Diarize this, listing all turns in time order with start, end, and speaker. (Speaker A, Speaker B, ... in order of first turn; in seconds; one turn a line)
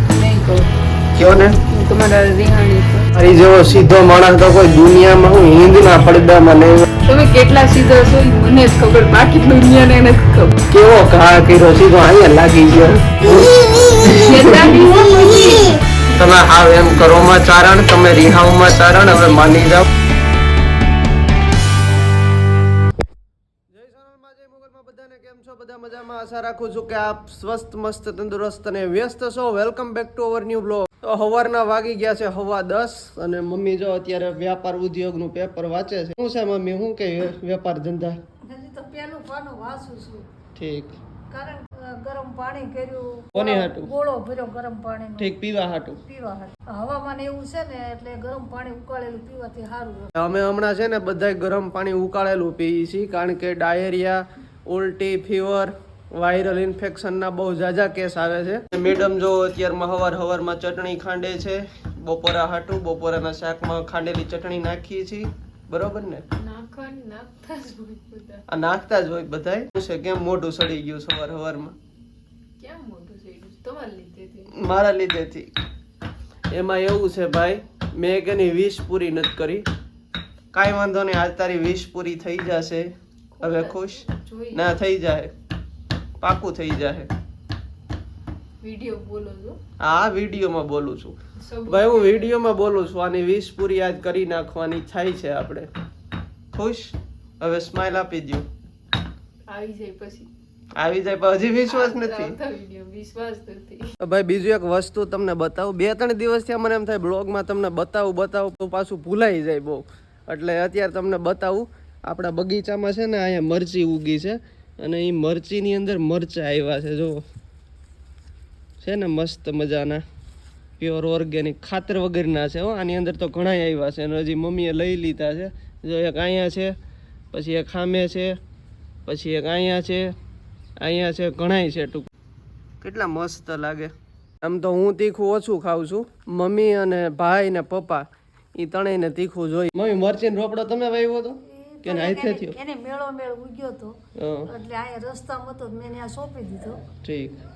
Speaker A: 0.1-0.7
Speaker B: 1.2-1.6
Speaker A: 1.7-3.1
Speaker B: 3.1-6.9
Speaker A: 7.0-10.6
Speaker B: 10.7-14.8
Speaker A: 14.1-15.8
Speaker B: 16.2-19.9
Speaker B: 23.7-38.2
Speaker C: 38.5-40.3
Speaker B: 40.5-41.0
Speaker C: 41.3-50.1
Speaker B: 43.3-43.9
Speaker B: 45.2-46.0
Speaker B: 50.2-66.2
Speaker A: 66.4-68.4
Speaker B: 68.5-71.8
Speaker A: 72.6-74.5
Speaker B: 74.5-75.5
Speaker B: 76.5-79.7
Speaker B: 80.5-84.0
Speaker A: 83.3-84.7
Speaker B: 84.5-85.3
Speaker B: 86.2-87.1
Speaker A: 88.6-89.6
Speaker B: 89.8-91.2
Speaker A: 91.4-92.4
Speaker B: 91.7-95.7
Speaker B: 96.5-98.5
Speaker A: 99.5-100.3
Speaker B: 100.8-102.4
Speaker A: 101.7-103.9
Speaker B: 104.0-117.2
Speaker B: 118.8-120.0
Speaker B: 120.8-126.8
Speaker B: 127.3-128.4
Speaker B: 129.1-130.1
Speaker B: 130.8-132.1
Speaker B: 132.8-142.6
Speaker C: 141.4-146.8
Speaker B: 144.2-144.5
Speaker B: 147.0-147.4